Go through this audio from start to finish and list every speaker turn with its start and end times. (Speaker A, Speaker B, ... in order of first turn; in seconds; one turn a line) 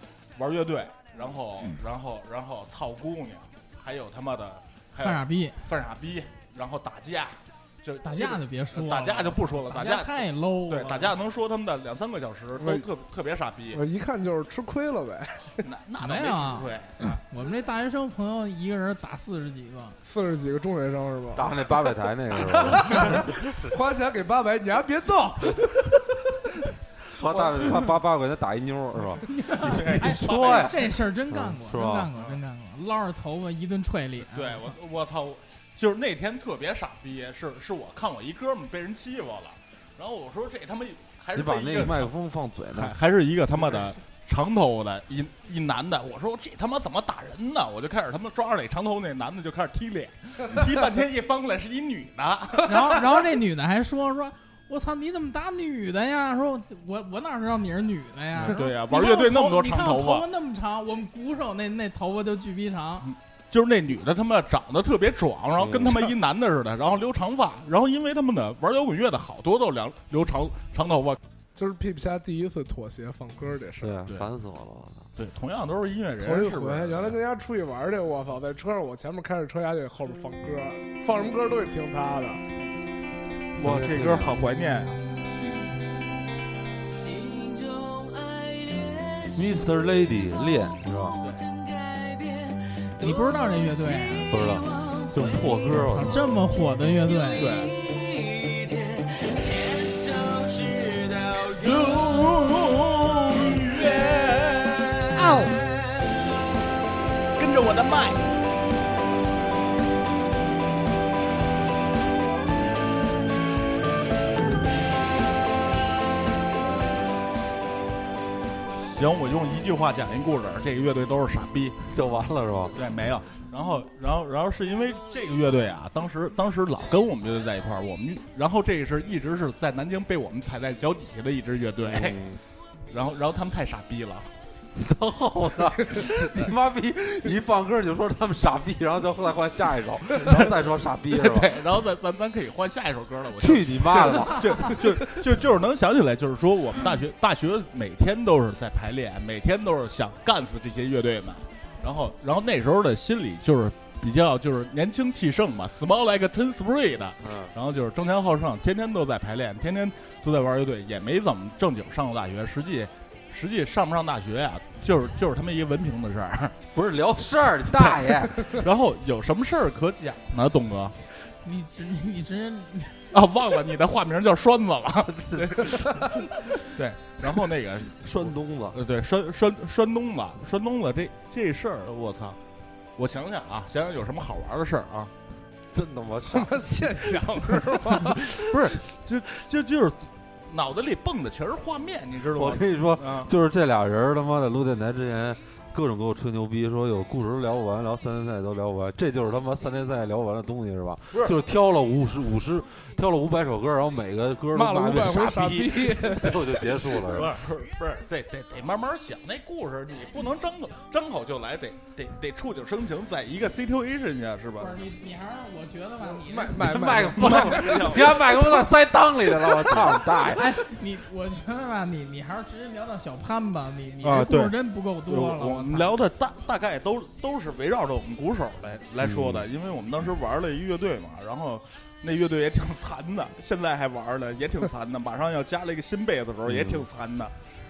Speaker A: 0.4-13.8
Speaker B: 5.0-5.6
Speaker B: 8.0-11.1
Speaker C: 12.6-12.9
Speaker C: 13.7-15.6
Speaker A: 15.6-17.2
Speaker B: 16.0-20.0
Speaker C: 20.0-26.0
Speaker D: 21.3-23.4
Speaker D: 27.1-32.1
Speaker C: 27.3-27.8
Speaker B: 29.2-34.7
Speaker A: 29.6-30.9
Speaker A: 34.3-42.1
Speaker D: 41.3-43.0
Speaker A: 42.7-53.0
Speaker B: 52.6-63.0
Speaker A: 58.4-60.2
Speaker A: 63.0-71.2
Speaker D: 65.6-66.1
Speaker C: 71.5-74.0
Speaker D: 73.8-75.1
Speaker A: 75.2-77.2
Speaker C: 76.2-82.4
Speaker A: 83.6-85.0
Speaker D: 83.6-84.4
Speaker E: 85.4-85.7
Speaker E: 86.8-96.1
Speaker D: 89.3-91.2
Speaker B: 93.0-94.3
Speaker D: 94.3-96.2
Speaker B: 95.9-97.5
Speaker E: 97.3-102.3
Speaker A: 97.4-97.7
Speaker A: 101.6-104.7
Speaker E: 103.3-106.3
Speaker B: 105.2-105.5
Speaker A: 107.4-108.2
Speaker A: 118.7-121.8
Speaker D: 121.9-122.8
Speaker A: 122.7-132.2
Speaker D: 131.8-132.4
Speaker A: 132.9-134.3
Speaker D: 134.7-141.5
Speaker A: 140.2-166.6
Speaker D: 143.3-145.0
Speaker D: 157.2-157.5
Speaker D: 166.7-168.6
Speaker A: 167.7-170.9
Speaker B: 171.4-173.0
Speaker A: 173.1-182.4
Speaker D: 178.0-178.8
Speaker A: 183.0-185.1
Speaker D: 185.7-186.8
Speaker C: 186.3-188.2
Speaker A: 188.3-193.3
Speaker D: 192.3-207.3
Speaker A: 201.1-201.4
Speaker C: 204.5-206.6
Speaker A: 207.0-214.8
Speaker B: 214.6-216.6
Speaker C: 216.0-218.1
Speaker D: 216.5-220.6
Speaker A: 217.1-218.7
Speaker A: 219.7-219.9
Speaker B: 220.3-225.9
Speaker A: 224.0-224.5
Speaker A: 225.1-237.3
Speaker D: 229.0-229.5
Speaker D: 236.4-236.9